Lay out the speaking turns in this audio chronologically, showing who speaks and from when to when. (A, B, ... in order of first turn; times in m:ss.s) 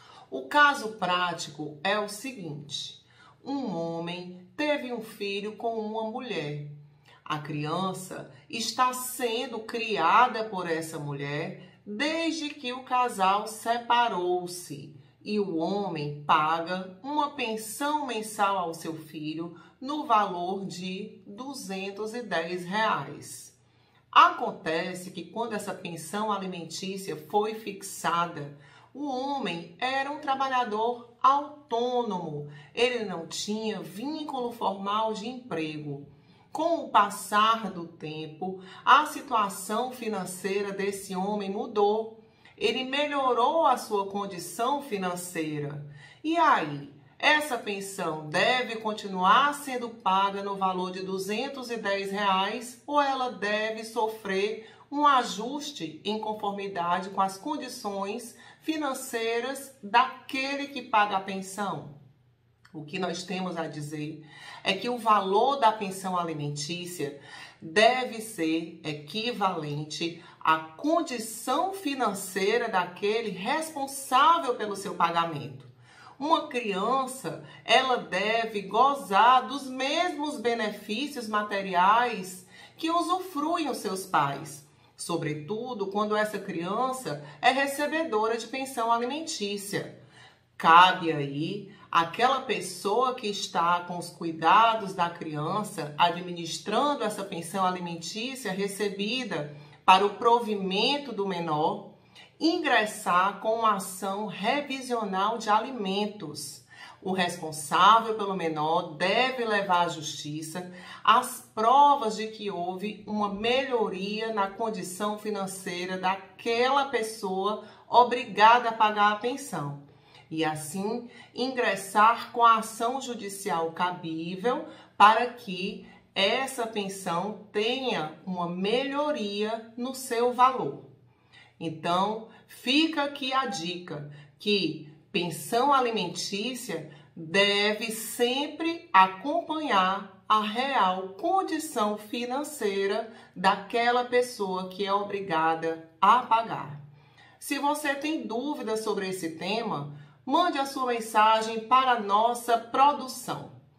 0:00.3-0:06.7 A
0:07.2-0:23.5 A
0:24.1-1:01.9 A
1:02.7-1:29.9 A
1:30.6-2:10.9 A
2:11.6-2:26.8 A
2:27.4-2:33.5 A